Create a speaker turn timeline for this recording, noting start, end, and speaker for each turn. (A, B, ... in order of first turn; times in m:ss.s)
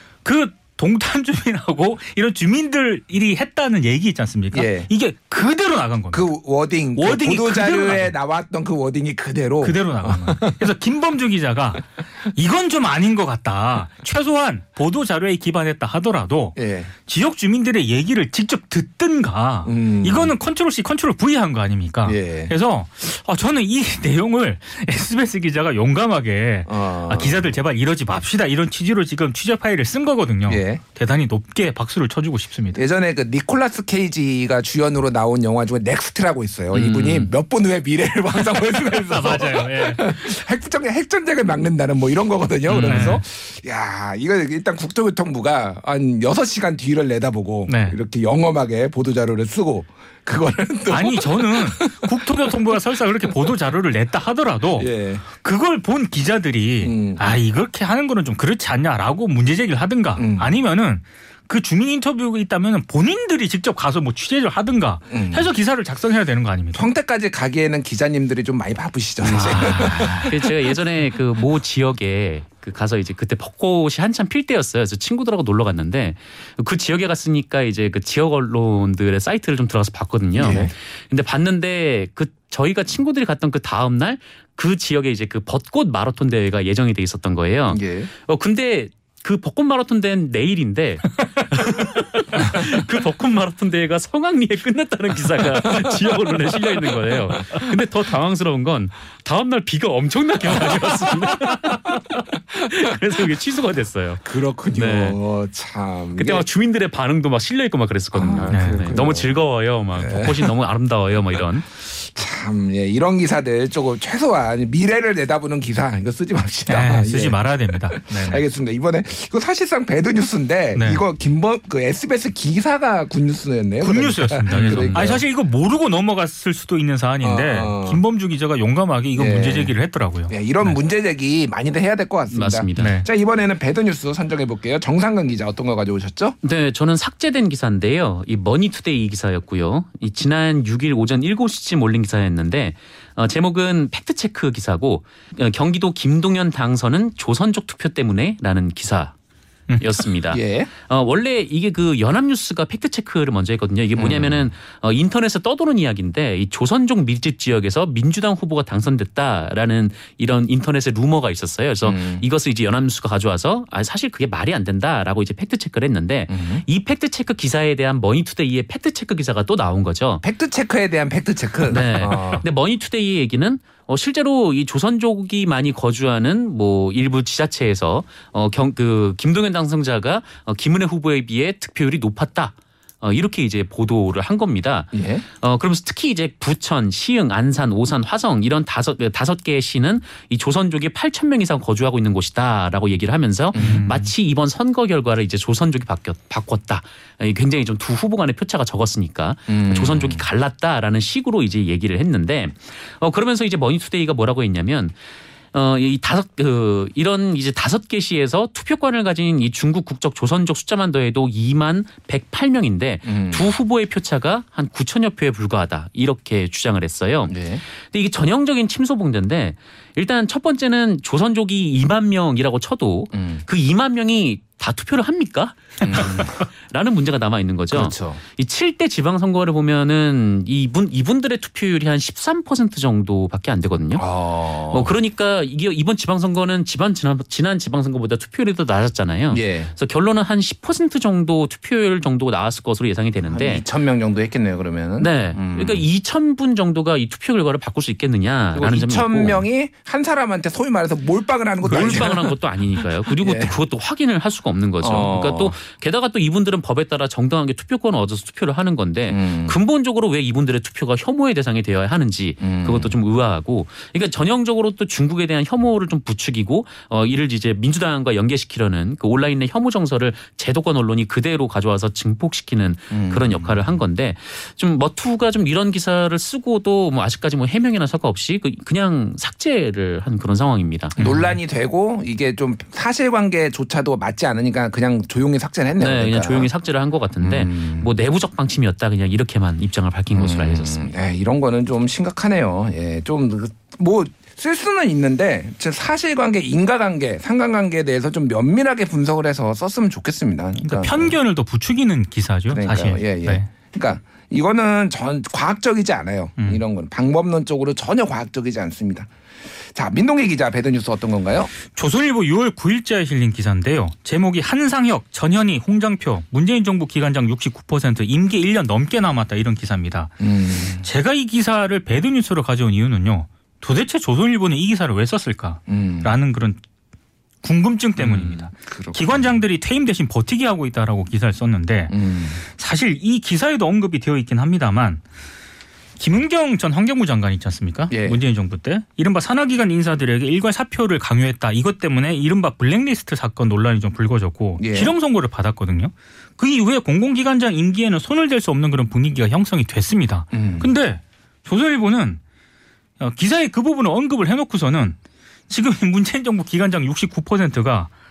0:00.2-0:06.3 A
0:04.5-0:04.9 B
0:06.1-0:10.6 B
0:07.0-0:08.1 A
0:09.6-0:32.8 A
0:16.6-0:16.9 B
0:19.6-0:20.3 B
0:22.0-0:22.5 B
0:26.7-0:27.5 B
0:30.5-0:30.8 B
0:32.8-0:52.5 B
0:36.7-0:37.3 C
0:38.7-0:40.2 A
0:42.7-0:43.2 A
0:42.8-0:43.1 C
0:47.7-0:48.0 A
0:50.9-1:06.9 A
0:54.8-0:55.2 B
0:56.8-0:57.3 B
1:00.2-1:00.5 B
1:05.1-1:05.5 B
1:06.7-1:10.6 B
1:09.2-1:10.3 A
1:10.3-1:45.2 C
1:20.4-1:20.7 B
1:27.7-1:28.1 B
1:35.7-1:35.9 B
1:36.5-1:37.3 B
1:40.5-1:41.4 B
1:44.2-1:46.5 B
1:46.1-1:51.7 C
1:48.1-1:49.3 B
1:48.5-1:48.8 A
1:50.0-1:50.5 B
1:51.9-2:05.2 B
1:56.7-1:58.4 A
2:00.8-2:01.0 A
2:03.8-2:10.8 A
2:04.7-2:04.9 C
2:07.2-2:08.0 B
2:09.2-2:09.7 B
2:10.3-2:16.4 B
2:12.3-2:13.0 C
2:12.8-2:13.1 A
2:16.4-2:29.2 C
2:29.8-2:50.2 C
2:30.3-2:30.7 B
2:34.0-2:34.5 B
2:41.8-2:42.2 B
2:46.3-2:46.6 B
2:50.2-2:52.4 B
2:51.7-3:25.0 C
3:04.9-3:05.2 B
3:13.5-3:14.1 B
3:13.6-3:13.9 A
3:19.5-3:20.2 B
3:25.5-3:54.1 C
3:33.1-3:33.4 B
3:37.3-3:37.6 B
3:43.1-3:43.4 B
3:45.8-3:46.4 B
3:47.7-3:48.2 B
3:54.0-3:54.9 B
3:54.7-4:03.7 C
3:59.3-3:59.7 B
4:03.3-4:05.8 B
4:05.0-4:09.4 C
4:08.6-4:13.5 B
4:11.6-4:41.3 C
4:14.8-4:15.6 B
4:19.1-4:19.6 B
4:22.4-4:23.0 B
4:32.9-4:33.6 B
4:41.0-4:46.5 B
4:45.8-4:50.9 C
4:47.2-4:47.9 B
4:50.1-5:01.2 B
5:00.6-5:03.5 A
5:02.5-5:11.5 B
5:11.7-5:20.1 A
5:20.2-5:20.9 B
5:20.8-5:26.6 A
5:25.7-5:26.1 B
5:27.4-5:32.0 A
5:28.0-5:29.4 B
5:31.9-5:32.4 B
5:32.5-5:35.0 A
5:36.0-5:52.2 A
5:37.9-5:38.2 B
5:44.6-5:44.9 B
5:50.3-5:50.7 B
5:53.0-5:55.0 A
5:55.5-5:57.9 A